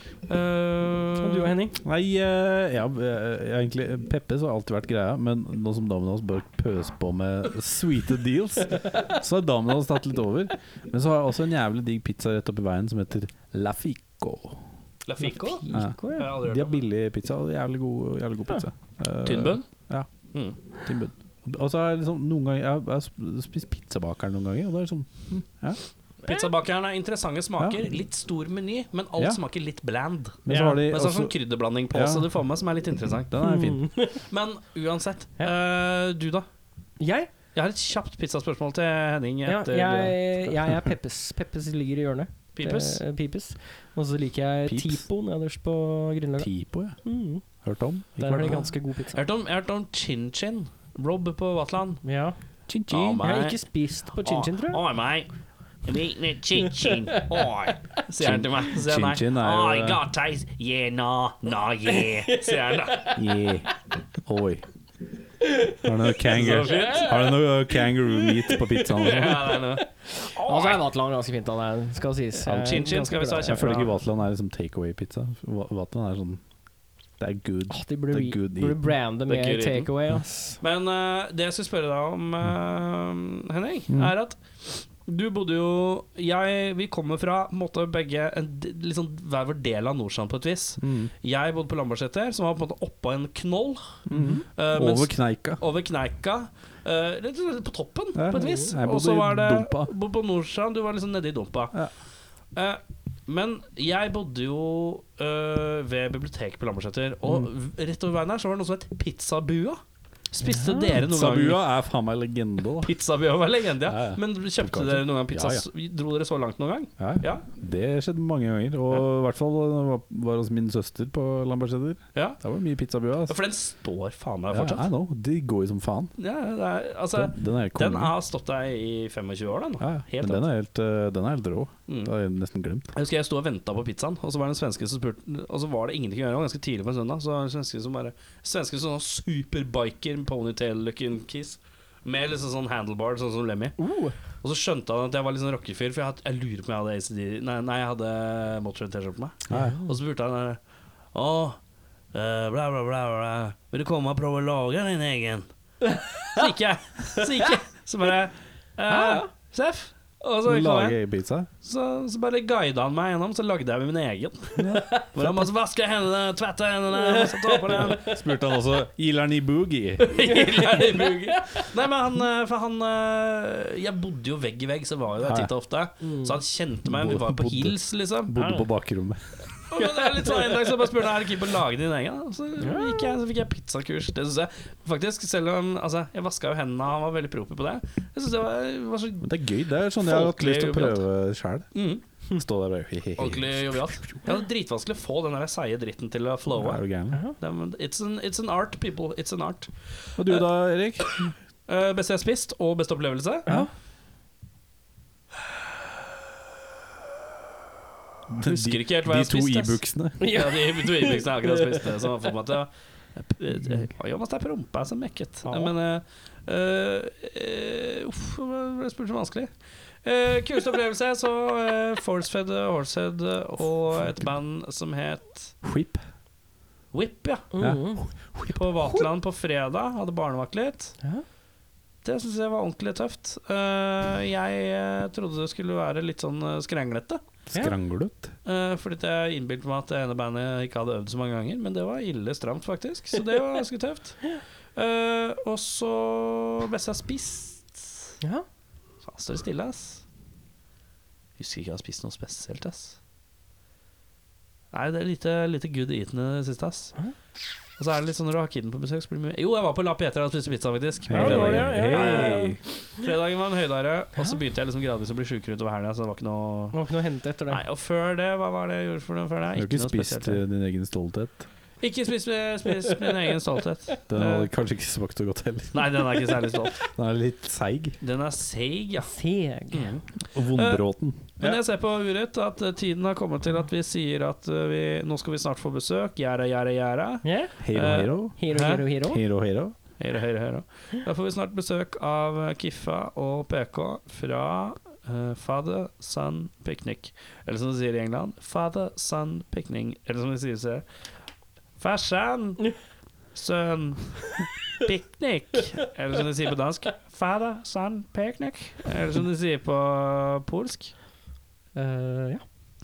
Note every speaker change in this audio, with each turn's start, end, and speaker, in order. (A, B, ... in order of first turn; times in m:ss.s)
0:00.3-0:01.6 A
0:01.2-0:01.8 B
0:01.8-0:14.6 C
0:15.0-0:16.8 A
0:15.2-0:16.3 B
0:15.7-0:20.1 C
0:19.2-0:19.7 A
0:20.8-0:25.8 C
0:26.2-0:33.3 A
0:30.4-0:31.4 C
0:30.5-0:30.8 B
0:31.9-0:32.2 C
0:33.3-0:33.9 C
0:33.4-0:34.2 B
0:34.1-0:36.5 A
0:37.0-0:37.3 B
0:37.5-0:40.2 A
0:39.4-0:46.5 B
0:42.6-0:43.0 A
0:44.6-0:45.0 C
0:46.4-0:47.0 C
0:47.0-0:47.4 B
0:47.6-0:48.7 C
0:48.2-0:49.2 B
0:48.4-0:52.0 A
0:52.0-0:52.4 B
0:52.7-0:53.2 C
0:52.9-0:53.6 A
0:53.2-0:54.8 B
0:54.1-0:55.3 A
0:55.8-1:03.2 A
0:56.8-0:57.4 B
0:58.2-1:00.0 C
1:01.9-1:02.3 B
1:03.1-1:03.7 C
1:04.2-1:04.6 C
1:05.8-1:09.6 C
1:06.2-1:07.3 A
1:06.7-1:07.0 B
1:08.5-1:08.8 B
1:09.0-1:10.8 A
1:10.1-1:13.8 B
1:12.4-1:12.8 C
1:12.5-1:13.9 A
1:13.4-1:16.4 C
1:17.2-1:18.9 C
1:17.7-1:20.6 B
1:19.3-1:19.9 A
1:20.6-1:41.8 A
1:30.8-1:31.1 C
1:34.1-1:35.6 C
1:34.2-1:34.4 B
1:38.1-1:39.9 C
1:38.3-1:38.7 B
1:42.5-1:49.8 A
1:50.3-1:51.6 A
1:50.4-1:50.9 B
1:50.9-1:52.9 C
1:52.8-1:57.4 A
1:53.8-1:55.6 C
1:57.0-2:03.4 C
2:03.3-2:04.9 A
2:04.5-2:06.1 C
2:06.2-2:10.4 A
2:07.1-2:08.1 C
2:09.8-2:12.9 C
2:11.9-2:12.1 A
2:12.9-2:23.8 A
2:23.8-2:24.1 B
2:24.4-2:30.6 A
2:29.5-2:29.8 C
2:29.5-2:29.9 B
2:31.1-2:31.6 A
2:32.1-2:35.5 A
2:36.0-2:36.4 B
2:36.2-2:41.0 A
2:38.9-2:39.3 B
2:40.4-2:41.5 C
2:41.6-2:48.0 A
2:44.6-2:45.4 C
2:46.9-2:48.2 B
2:48.1-2:50.3 C
2:50.1-2:58.4 A
2:50.3-2:51.7 B
2:55.2-2:55.5 C
2:56.0-2:56.3 B
2:56.8-2:59.2 C
2:59.7-3:09.3 A
2:59.8-3:00.7 B
3:02.6-3:03.1 B
3:09.2-3:11.7 C
3:10.0-3:11.0 A
3:11.7-3:12.0 A
3:12.3-3:14.2 C
3:13.2-3:16.8 A
3:16.5-3:17.2 C
3:17.4-3:19.7 A
3:20.2-3:21.4 C
3:21.7-3:23.5 A
3:23.4-3:23.7 B
3:28.3-3:30.3 C
3:28.4-3:39.5 A
3:30.2-3:31.6 B
3:35.4-3:35.7 C
3:40.0-3:45.6 A
3:45.6-3:46.0 C
3:46.9-3:47.5 A
3:47.5-3:48.0 B
3:47.6-3:48.6 C
3:48.5-3:51.0 A
3:52.0-3:57.2 A
3:57.5-3:58.3 C
3:58.4-4:08.1 A
4:08.2-4:08.4 B
4:09.0-4:10.0 A
4:11.4-4:13.0 A
4:14.7-4:17.0 A
4:17.8-4:26.8 A
4:21.0-4:22.6 C
4:21.1-4:22.6 B
4:26.7-4:27.6 B
4:27.5-4:30.4 A
4:29.5-4:31.4 C
4:31.8-4:34.5 A
4:34.1-4:36.1 C
4:35.7-4:36.9 A
4:36.8-4:38.0 C
4:38.0-4:39.1 A
4:39.0-4:40.0 B
4:39.7-4:40.0 A
4:40.3-4:41.6 C
4:40.5-4:40.8 A
4:41.4-4:48.8 A
4:47.2-4:47.5 B
4:47.6-4:48.4 C
4:48.4-4:49.2 B
4:49.0-4:49.8 C
4:50.0-5:00.8 A
5:01.8-5:02.8 A
5:03.3-5:10.9 A
5:11.7-5:12.4 B